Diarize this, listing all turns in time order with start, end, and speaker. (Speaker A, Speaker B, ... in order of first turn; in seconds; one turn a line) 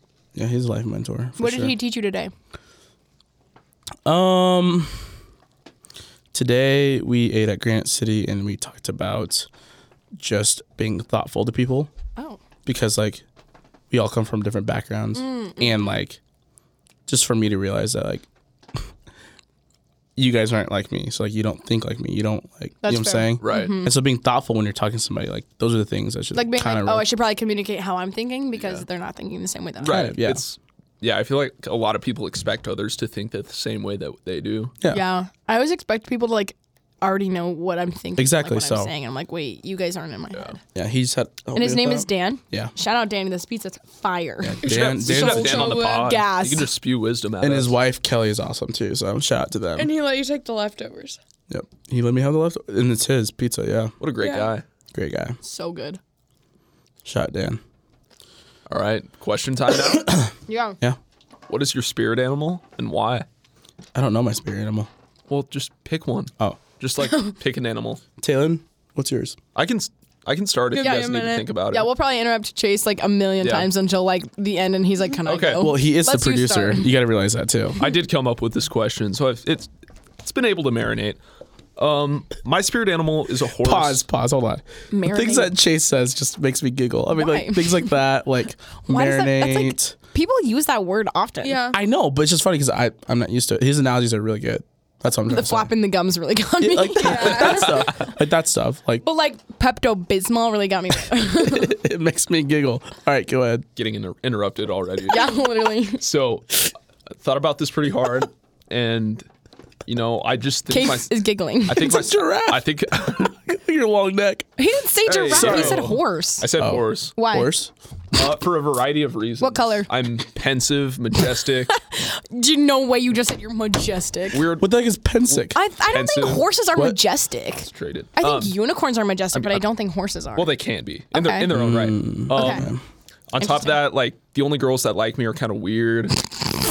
Speaker A: 0.3-1.7
Speaker B: 1.4-2.3
Speaker A: 4.0-5.1
Speaker A: 6.3-9.5
Speaker A: 10.2-11.9
Speaker A: 12.7-13.2
Speaker A: 13.9-16.2
Speaker B: 15.1-15.8
Speaker A: 17.1-18.8
Speaker A: 20.2-27.1
Speaker B: 22.8-24.0
Speaker C: 23.4-23.8
Speaker B: 26.3-30.1
Speaker C: 28.5-28.8
Speaker C: 29.8-34.7
Speaker A: 29.9-30.4
Speaker B: 34.9-40.6
Speaker A: 38.2-38.9
Speaker A: 40.7-42.7
Speaker B: 41.5-44.6
Speaker A: 44.4-45.8
Speaker C: 44.6-47.8
Speaker D: 44.7-46.2
Speaker B: 45.4-46.7
Speaker A: 47.4-49.9
Speaker D: 49.8-51.2
Speaker A: 51.5-53.9
Speaker C: 54.0-54.6
Speaker D: 54.2-54.5
Speaker A: 54.9-55.4
Speaker B: 55.4-56.0
Speaker A: 57.0-57.6
Speaker C: 58.7-60.2
Speaker B: 60.5-60.8
Speaker C: 61.5-63.2
Speaker A: 63.9-64.9
Speaker C: 65.3-68.0
Speaker B: 67.0-67.3
Speaker A: 68.2-69.4
Speaker C: 69.5-71.9
Speaker D: 70.7-71.3
Speaker B: 70.8-76.9
Speaker C: 73.4-73.7
Speaker C: 75.2-75.7
Speaker A: 75.5-77.8
Speaker C: 77.8-79.7
Speaker C: 80.2-81.2
Speaker C: 81.8-84.0
Speaker A: 83.6-89.9
Speaker B: 84.9-85.5
Speaker B: 87.1-88.0
Speaker B: 88.9-91.6
Speaker D: 91.4-91.8
Speaker A: 91.7-95.7
Speaker B: 95.3-98.0
Speaker A: 96.6-99.0
Speaker D: 97.0-97.8
Speaker C: 97.4-97.9
Speaker B: 99.0-101.7
Speaker A: 101.3-103.7
Speaker C: 103.8-105.3
Speaker B: 105.1-106.0
Speaker C: 106.0-109.2
Speaker C: 109.9-113.3
Speaker B: 110.7-112.0
Speaker A: 111.8-114.5
Speaker B: 114.6-116.5
Speaker C: 115.0-117.1
Speaker A: 115.3-115.9
Speaker A: 116.6-117.7
Speaker B: 117.2-117.5
Speaker C: 118.1-121.8
Speaker B: 119.4-119.9
Speaker B: 121.7-124.5
Speaker C: 124.3-124.7
Speaker A: 124.6-125.6
Speaker C: 125.3-126.5
Speaker B: 125.5-130.5
Speaker C: 127.7-128.6
Speaker C: 129.3-129.7
Speaker C: 130.3-132.7
Speaker B: 131.1-131.5
Speaker A: 131.5-132.8
Speaker B: 132.3-132.7
Speaker C: 133.3-136.3
Speaker B: 133.4-133.8